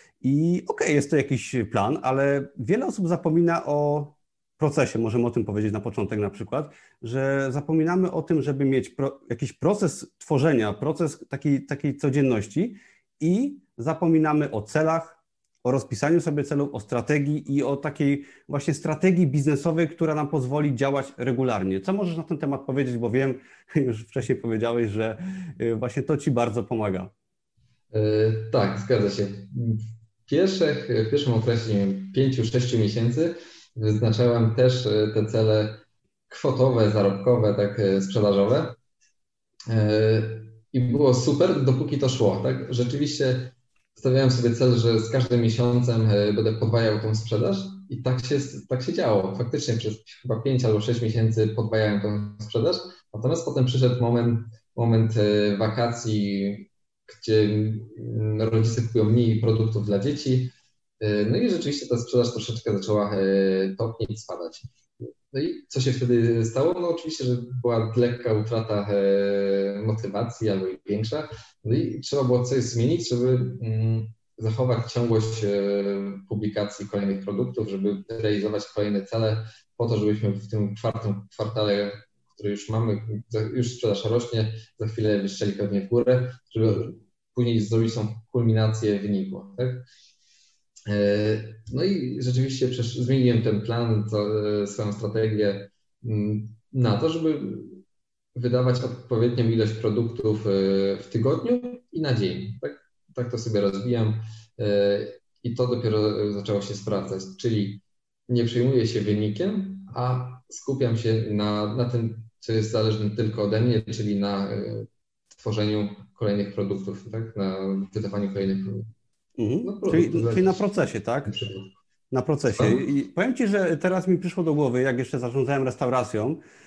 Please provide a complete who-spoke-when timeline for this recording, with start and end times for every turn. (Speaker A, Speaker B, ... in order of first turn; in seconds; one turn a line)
Speaker A: 0.2-27.1
Speaker B: 27.9-38.8
Speaker B: 39.7-64.7
Speaker B: 65.3-89.8
Speaker A: 86.7-86.9
Speaker B: 90.9-97.8
Speaker B: 98.3-118.9
Speaker A: 119.4-121.3
Speaker B: 119.6-120.6
Speaker B: 121.2-121.7
Speaker A: 122.1-126.4
Speaker B: 122.5-122.8